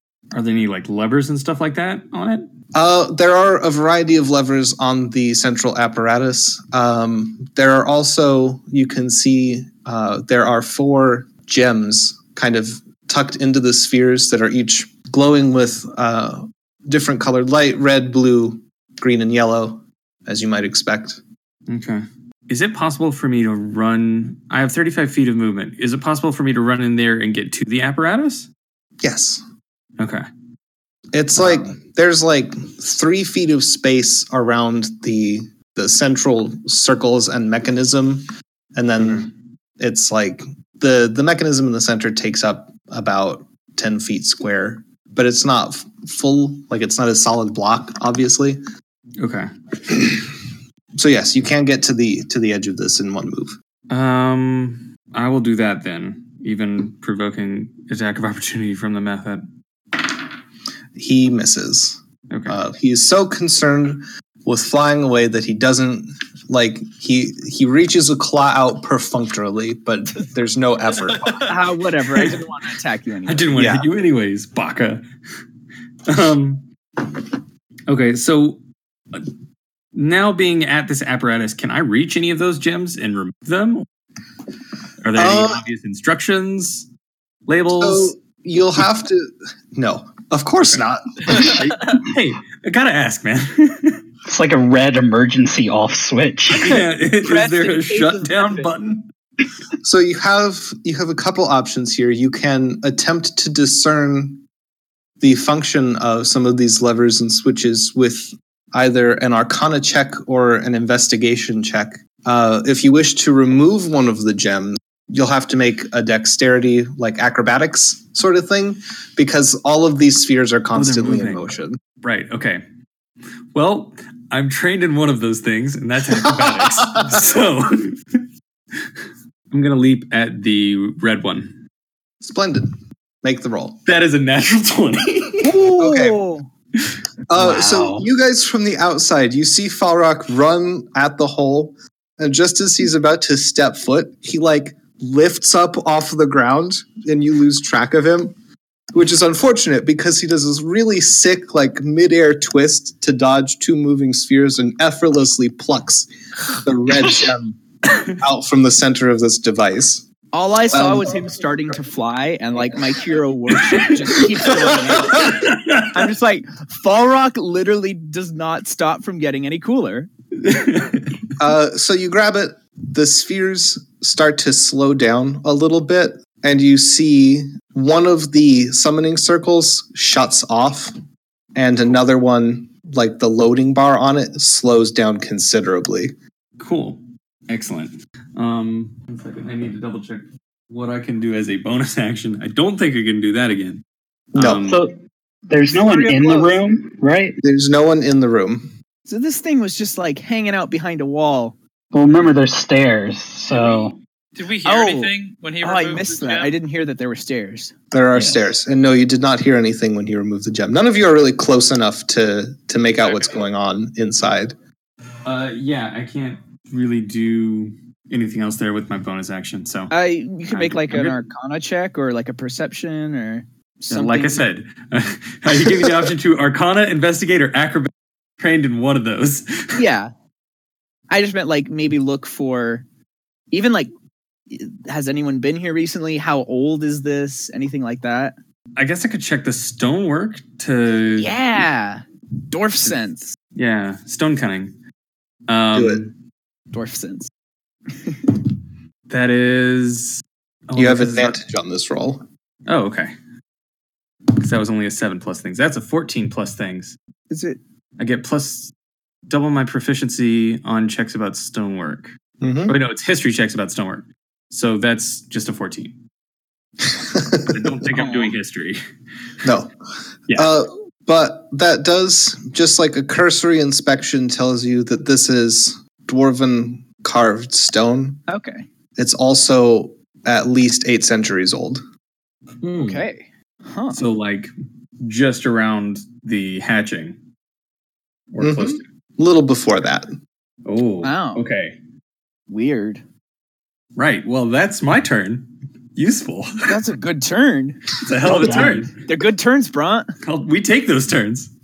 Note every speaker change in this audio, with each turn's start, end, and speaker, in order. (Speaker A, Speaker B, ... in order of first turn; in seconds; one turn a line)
Speaker A: 0.3-2.5
Speaker B: 2.7-21.2
Speaker A: 21.7-28.5
Speaker B: 29.0-29.4
Speaker A: 30.0-30.3
Speaker B: 31.1-48.6
Speaker A: 39.0-39.3
Speaker A: 49.2-49.5
Speaker B: 49.9-50.2
Speaker B: 51.0-53.5
Speaker A: 53.9-59.5
Speaker B: 61.0-71.5
Speaker A: 62.3-62.6
Speaker C: 71.5-73.5
Speaker A: 72.1-72.4
Speaker A: 73.3-75.0
Speaker B: 73.6-73.9
Speaker A: 76.1-77.3
Speaker A: 77.9-78.6
Speaker A: 80.0-83.9
Speaker A: 85.0-86.9
Speaker B: 85.2-85.6
Speaker A: 87.5-88.1
Speaker B: 87.8-91.6
Speaker A: 91.3-94.0
Speaker D: 94.3-96.8
Speaker A: 96.5-99.1
Speaker C: 96.7-98.7
Speaker B: 99.8-104.4
Speaker B: 105.2-121.8
Speaker A: 120.8-121.5
Speaker A: 122.0-122.6
Speaker A: 123.5-128.9
Speaker B: 126.2-127.1
Speaker A: 129.5-131.6
Speaker B: 132.2-133.8
Speaker A: 133.8-135.6
Speaker C: 135.4-136.5
Speaker B: 135.8-136.2
Speaker B: 137.3-148.3
Speaker D: 137.3-138.1
Speaker B: 148.9-160.1
Speaker C: 160.3-170.1
Speaker B: 160.7-161.2
Speaker A: 165.1-166.0
Speaker A: 170.4-171.2
Speaker B: 171.4-180.9
Speaker B: 181.6-186.1
Speaker A: 186.6-193.8
Speaker B: 194.3-194.8
Speaker A: 194.3-194.8
Speaker D: 194.7-194.9
Speaker D: 195.5-197.4
Speaker C: 195.7-196.5
Speaker B: 197.4-198.7
Speaker C: 199.1-201.6
Speaker D: 201.9-204.0
Speaker E: 203.6-206.6
Speaker C: 204.7-207.7
Speaker B: 207.9-214.6
Speaker D: 208.2-208.4
Speaker E: 213.0-213.4
Speaker A: 215.2-219.9
Speaker C: 219.9-224.4
Speaker A: 220.5-221.2
Speaker A: 223.9-229.8
Speaker C: 229.8-230.1
Speaker C: 231.1-232.8
Speaker C: 233.5-233.9
Speaker C: 234.5-238.4
Speaker A: 238.8-241.3
Speaker C: 241.2-243.4
Speaker A: 243.6-244.8
Speaker A: 245.5-246.1
Speaker B: 245.7-246.1
Speaker C: 246.7-247.3
Speaker C: 248.0-248.4
Speaker A: 249.1-251.3
Speaker B: 250.8-252.2
Speaker A: 252.7-253.1
Speaker A: 254.4-257.0
Speaker C: 257.3-257.6
Speaker A: 258.0-258.7
Speaker A: 259.3-262.1
Speaker B: 262.4-262.8
Speaker A: 262.7-266.0
Speaker B: 267.0-267.6
Speaker A: 267.4-268.8
Speaker C: 267.9-268.4
Speaker B: 269.4-269.7
Speaker B: 270.4-278.2
Speaker C: 278.3-278.7
Speaker B: 279.0-281.8
Speaker A: 282.6-283.0
Speaker C: 282.7-284.0
Speaker A: 283.9-287.2
Speaker A: 288.3-288.8
Speaker B: 288.4-290.1
Speaker A: 290.6-291.8
Speaker C: 291.0-291.4
Speaker C: 292.5-293.0
Speaker A: 294.0-296.8
Speaker C: 296.6-300.1
Speaker A: 298.0-298.9
Speaker D: 298.2-298.8
Speaker A: 300.2-301.5